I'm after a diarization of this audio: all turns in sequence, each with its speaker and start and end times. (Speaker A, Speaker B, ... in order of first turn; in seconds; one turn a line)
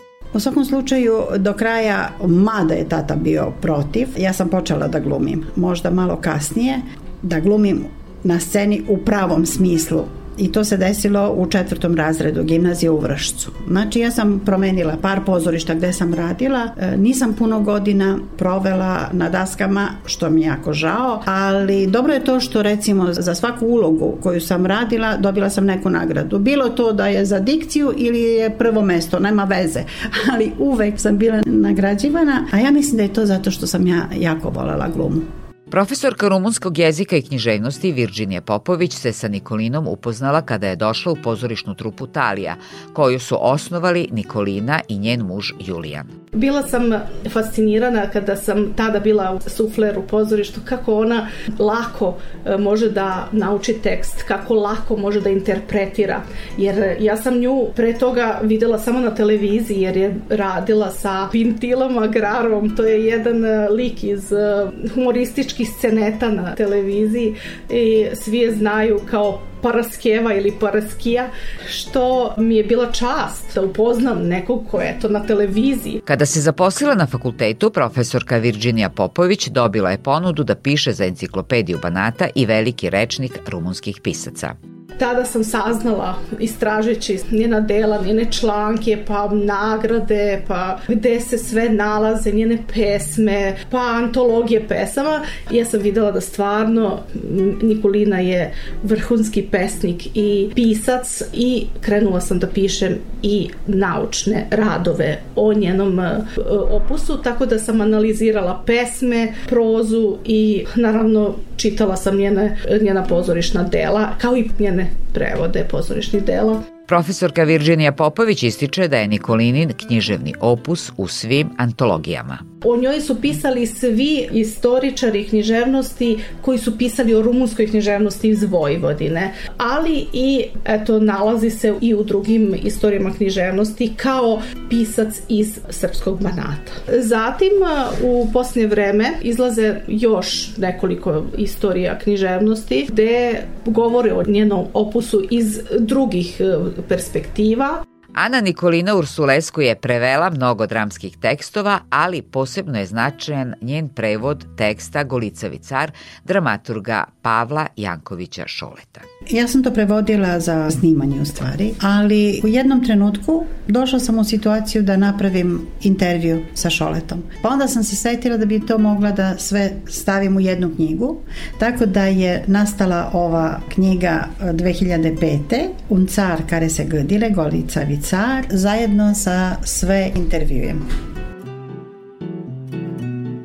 Speaker A: 0.3-35.2
Speaker B: 35.7-46.1
Speaker C: 46.3-76.0
Speaker B: 76.0-84.5
Speaker C: 85.0-116.6
Speaker B: 116.9-122.4
Speaker C: 122.6-147.8
Speaker B: 148.1-159.0
Speaker A: 159.3-180.8